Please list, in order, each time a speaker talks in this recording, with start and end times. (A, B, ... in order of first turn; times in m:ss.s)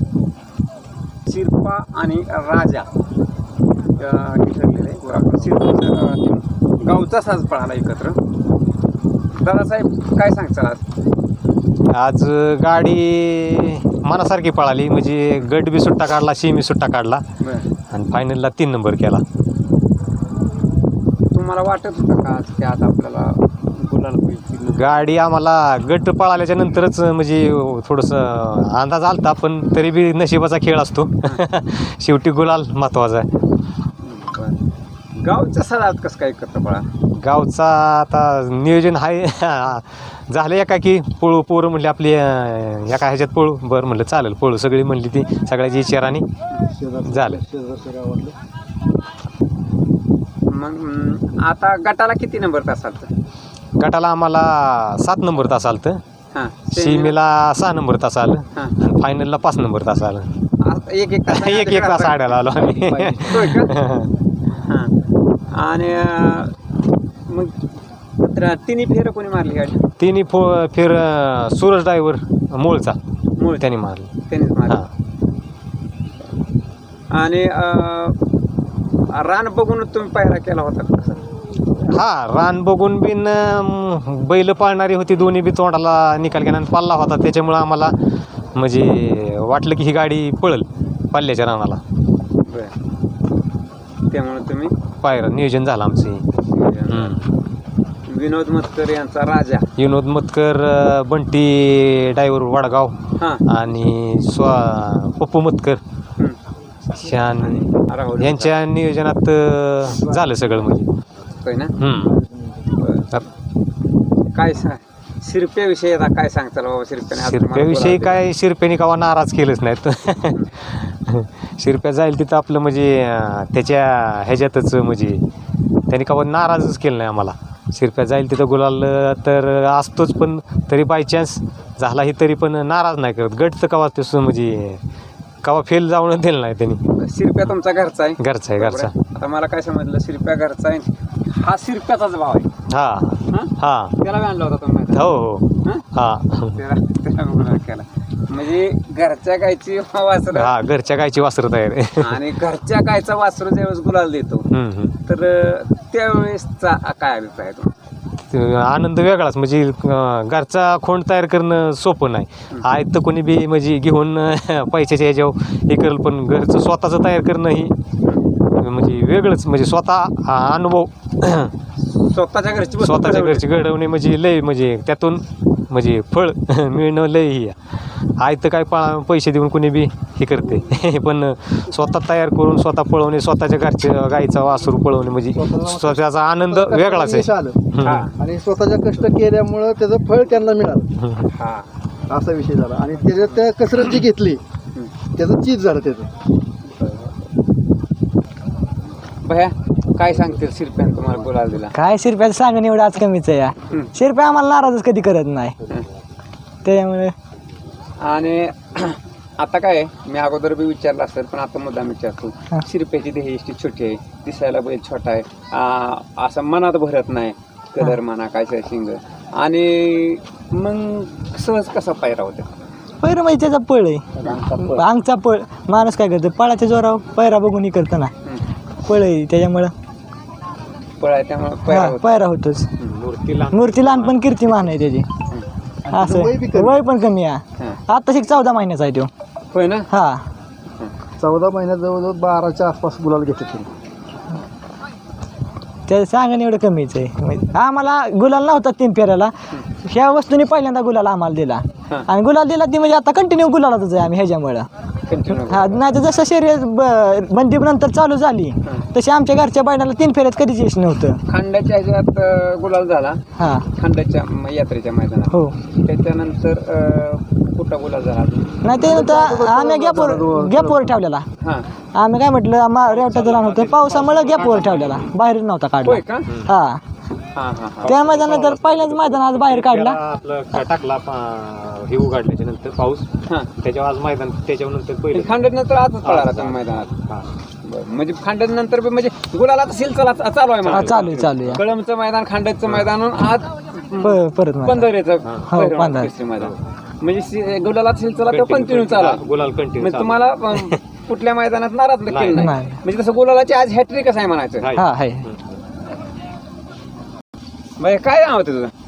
0:01.3-0:02.9 A
0:04.0-0:08.2 A
0:09.4-0:10.8 A
0:11.9-0:17.2 B
0:17.4-0:17.7 A
0:17.9-0:19.2 B
0:21.3-0:25.0 A
0:24.7-0:33.3 B
0:34.0-0:34.6 A
0:35.2-0:36.8 A
0:37.1-0:46.3 B
0:46.7-0:48.3 C
0:47.1-0:47.4 B
0:50.5-0:53.1 A
0:53.8-0:56.0 B
0:56.3-0:57.2 A
0:56.7-1:00.3 B
1:00.6-1:03.7 A
1:01.3-1:04.1 B
1:04.6-1:04.9 A
1:05.5-1:06.5 A
1:07.3-1:07.5 A
1:08.2-1:09.8 A
1:10.0-1:13.0 B
1:13.4-1:13.7 A
1:13.6-1:14.1 B
1:14.3-1:14.8 A
1:17.1-1:18.2 A
1:19.1-1:21.2 A
1:21.9-1:27.9 B
1:28.6-1:31.8 B
1:32.5-1:32.7 A
1:34.1-1:34.7 A
1:35.0-1:36.2 B
1:36.4-1:37.1 A
1:36.9-1:37.2 B
1:38.1-1:39.7 A
1:39.8-1:42.9 B
1:43.2-1:43.4 A
1:43.5-1:45.8 B
1:47.0-1:47.6 B
1:47.1-1:48.6 A
1:48.2-1:50.9 B
1:51.4-1:51.8 A
1:51.8-1:52.2 B
1:52.8-1:53.2 A
1:54.3-1:58.2 A
1:57.2-2:05.2 B
2:05.9-2:14.8 B
2:15.4-2:16.8 B
2:16.9-2:22.5 A
2:18.2-2:18.9 B
2:22.7-2:23.9 B
2:23.3-2:25.0 A
2:24.9-2:26.6 B
2:26.5-2:30.5 A
2:30.3-2:32.2 B
2:32.0-2:34.5 A
2:34.5-2:34.9 B
2:35.1-2:37.7 A
2:38.3-2:47.8 B
2:48.5-2:51.5 B
2:51.9-2:53.5 A
2:52.8-2:57.5 B
2:58.2-3:08.0 B
3:05.3-3:07.6 C
3:07.8-3:08.1 A
3:08.2-3:10.9 C
3:11.0-3:11.3 B
3:11.3-3:11.7 A
3:12.1-3:14.4 C
3:15.2-3:16.1 C
3:16.7-3:17.2 A
3:19.2-3:21.7 A
3:21.7-3:25.5 D
3:26.6-3:27.1 D
3:28.0-3:42.5 A
3:43.0-3:44.1 D
3:44.2-3:44.8 A
3:44.6-3:48.1 D
3:48.8-3:49.7 D
3:51.0-3:52.2 A
3:51.7-3:52.7 D
3:52.9-3:54.8 B
3:53.5-3:55.1 D
3:55.8-3:56.8 C
3:55.9-3:59.1 D
3:59.5-3:59.9 A
3:59.9-4:00.2 D
4:01.2-4:03.7 C
4:05.9-4:14.7 D
4:15.1-4:15.8 A
4:15.5-4:21.2 D
4:21.3-4:23.2 A
4:23.4-4:23.6 D
4:23.7-4:28.5 A
4:25.3-4:25.6 D
4:28.6-4:31.3 D
4:28.9-4:31.0 C
4:31.4-4:31.7 A
4:32.0-4:36.8 D
4:32.9-4:35.0 B
4:34.3-4:34.9 A
4:35.8-4:36.3 A
4:37.3-4:38.0 A
4:37.8-4:40.0 D
4:37.8-4:45.4 B
4:45.1-4:46.9 A
4:46.0-4:46.6 B
4:47.6-4:59.2 A
4:50.7-4:51.0 B
4:50.7-4:51.6 D
4:54.0-4:54.9 D
4:55.4-4:56.1 D
4:58.3-5:00.8 B
4:59.8-5:04.7 A
5:02.1-5:02.4 B
5:02.4-5:02.8 D
5:04.7-5:05.3 D
5:07.8-5:08.7 A